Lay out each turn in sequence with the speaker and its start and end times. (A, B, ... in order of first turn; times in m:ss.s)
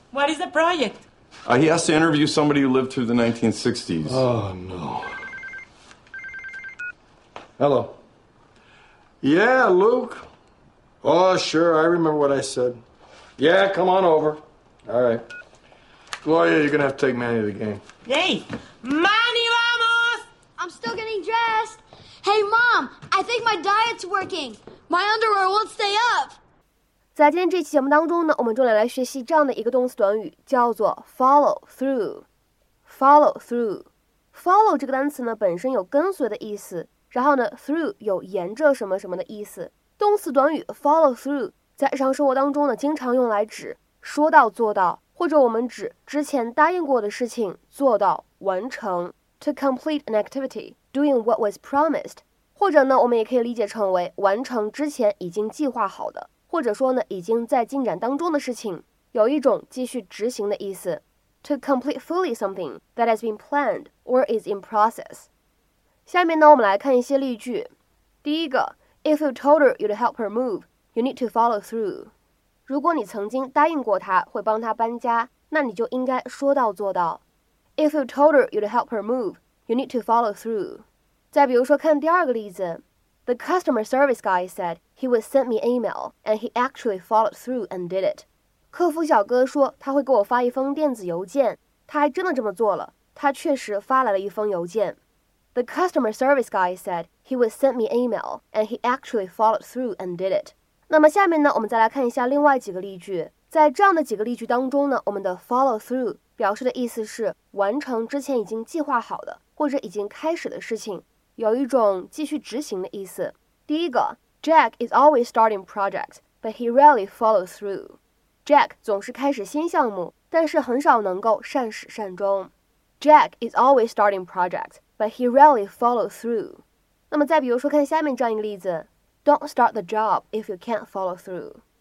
0:00.1-0:01.0 A
0:01.5-0:04.2 B
0:04.0-0:05.2 C
0:07.6-0:08.0 C
0:09.2-0:10.2 C
0:11.0-0:12.8 C
0:13.4-0:15.2 C
0:16.2-0:17.8 C
0:18.1-0:20.3 A
0:20.6-0:26.4 D
0:27.1-0:32.2 E
0:32.8-1:05.3 E
1:06.1-1:07.7 E
1:08.2-1:12.1 E
1:12.7-1:17.2 E
1:17.8-1:35.0 E
1:35.5-2:11.6 E